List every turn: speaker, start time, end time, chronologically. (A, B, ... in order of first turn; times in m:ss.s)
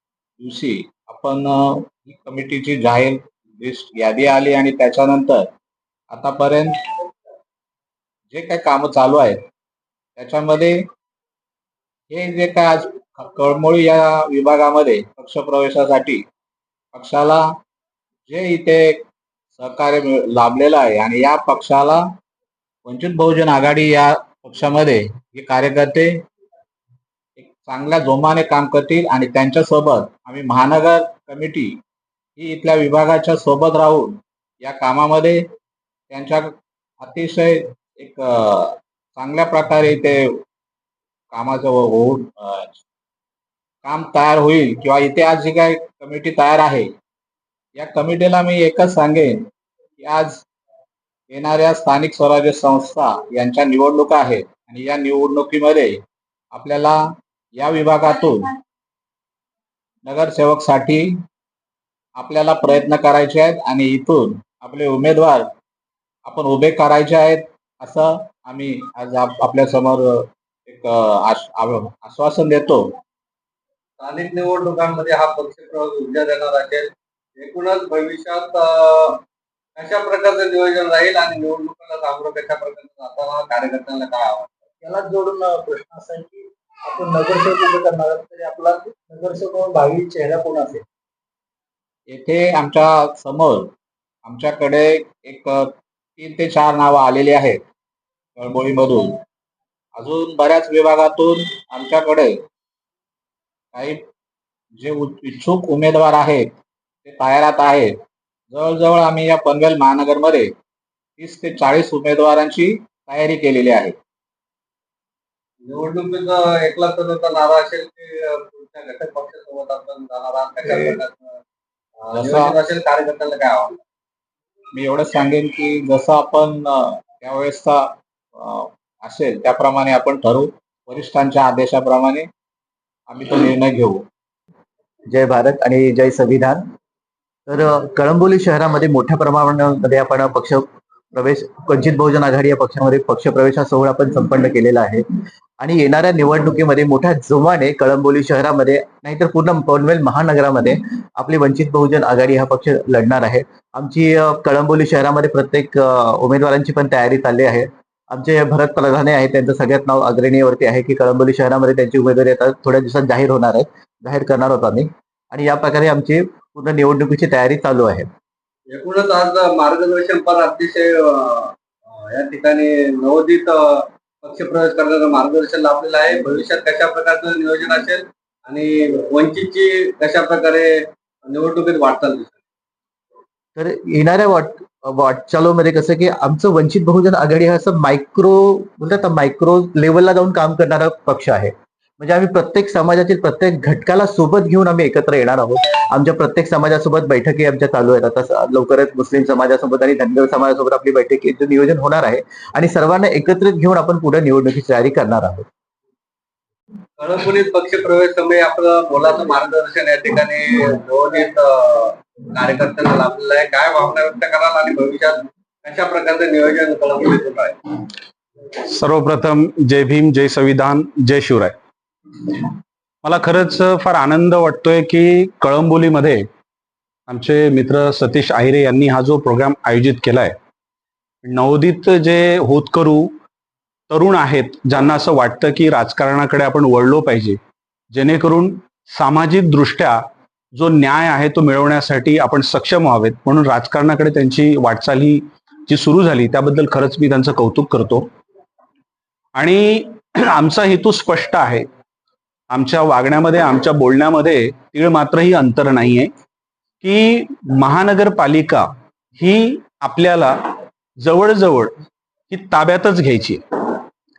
0:00.4-0:05.4 A
0:06.1-0:06.7 A
0:08.3-0:09.4 A
0:10.2-0:10.8 A
0:12.1-0:16.2 A
0:16.9-0:17.4 A
0:18.3-0:18.8 A
0:19.6-0:22.0 A
0:22.8-0:26.1 A
0:27.4-0:31.8 A
0:32.4-0:35.4 A
0:36.1-0:36.5 A
0:37.0-0:40.2 A
0:41.3-0:42.8 A
0:43.8-0:46.9 A
0:47.8-0:49.4 A
0:50.0-0:50.4 A
0:51.3-0:56.0 A
0:56.5-0:57.0 A
0:57.6-0:58.5 A
1:00.0-1:01.1 A
1:02.2-1:05.4 A
1:06.3-1:12.9 A
1:14.0-1:19.2 B
1:19.8-1:24.5 B
1:24.8-1:30.8 C
1:32.1-1:33.7 A
1:34.2-1:35.5 A
1:36.2-1:37.6 A
1:38.4-1:39.1 A
1:40.0-1:42.3 A
1:44.8-1:47.9 A
1:48.5-1:50.5 A
1:51.2-1:53.9 A
1:55.6-2:01.2 B
2:00.7-2:00.9 A
2:02.1-2:02.5 A
2:02.1-2:03.8 B
2:04.7-2:07.8 A
2:08.4-2:12.3 A
2:13.1-2:14.0 A
2:15.1-2:16.6 D
2:17.5-2:25.0 D
2:25.6-2:48.1 D
2:48.7-3:00.7 B
3:01.2-3:02.4 B
3:03.6-3:25.4 D
3:27.0-3:37.5 B
3:38.6-3:41.5 E
3:43.0-3:46.2 E
3:47.1-3:50.3 E
3:51.2-3:53.1 E
3:53.9-3:57.4 E
3:57.9-4:00.0 E
4:00.5-4:08.0 E
4:09.4-4:11.6 E
4:12.5-4:16.1 E
4:16.8-4:20.4 E
4:21.0-4:21.7 E
4:22.3-4:23.8 E